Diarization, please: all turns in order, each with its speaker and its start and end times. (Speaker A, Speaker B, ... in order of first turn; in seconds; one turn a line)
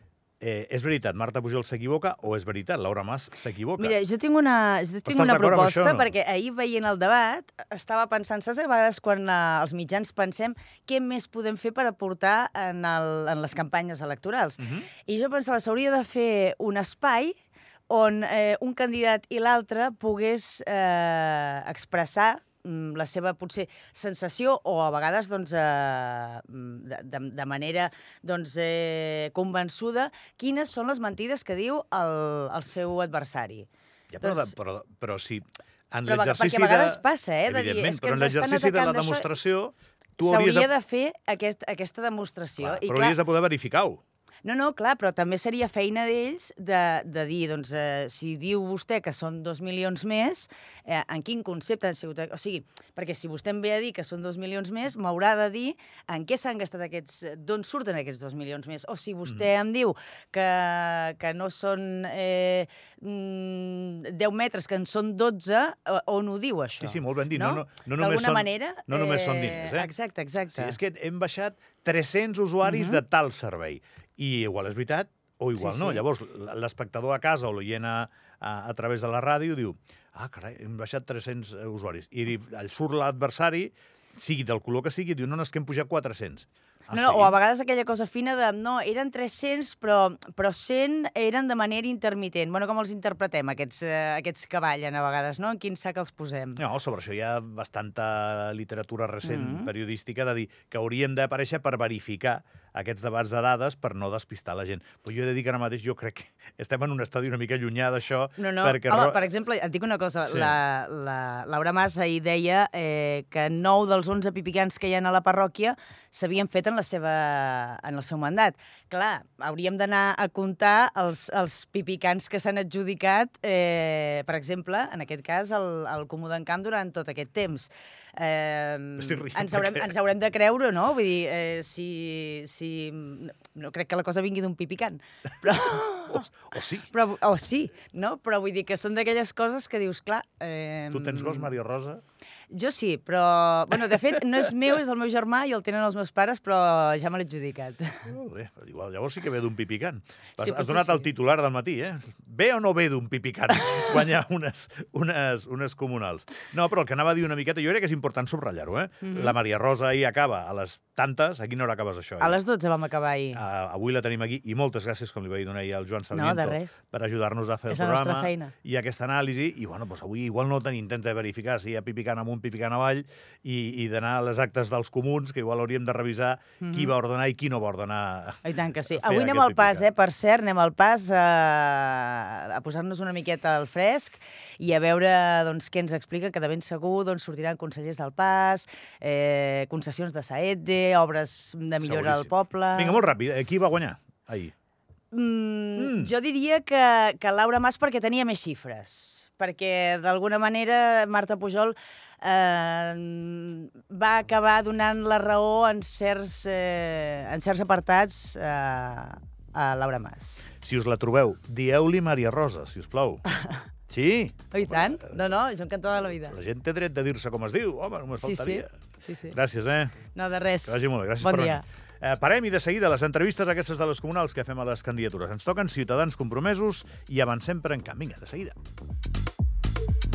Speaker A: 0.4-4.0
Speaker B: 3.8-17.3
Speaker A: 5.0-6.1
Speaker A: 14.6-14.9
Speaker B: 17.9-33.7
Speaker A: 34.1-40.7
Speaker B: 34.2-34.5
Speaker B: 36.0-39.3
Speaker B: 40.2-43.2
Speaker A: 42.6-44.0
Speaker B: 44.4-70.8
Speaker A: 66.8-69.9
Speaker A: 70.5-87.3
Speaker B: 72.6-73.0
Speaker B: 75.5-76.0
Speaker B: 86.9-96.6
Speaker A: 96.6-109.2
Speaker B: 99.2-99.7
Speaker B: 108.4-136.3
Speaker A: 110.3-110.5
Speaker A: 129.0-129.9
Speaker A: 136.1-136.9
Speaker B: 136.9-141.5
Speaker A: 140.9-142.0
Speaker B: 142.5-148.0
Speaker A: 148.1-162.4
Speaker B: 150.4-151.1
Speaker B: 159.0-159.3
Speaker B: 162.2-163.4
Speaker A: 163.3-179.9
Speaker B: 166.1-166.8
Speaker B: 167.7-168.5
Speaker B: 176.6-176.9
Speaker B: 178.4-193.1
Speaker A: 191.8-194.5
Speaker B: 195.1-210.5
Speaker A: 195.8-196.1
Speaker A: 210.6-213.2
Speaker A: 213.9-215.1
Speaker B: 214.5-216.3
Speaker A: 216.3-218.7
Speaker B: 218.2-219.4
Speaker A: 219.3-220.0
Speaker B: 220.1-221.6
Speaker A: 220.7-228.6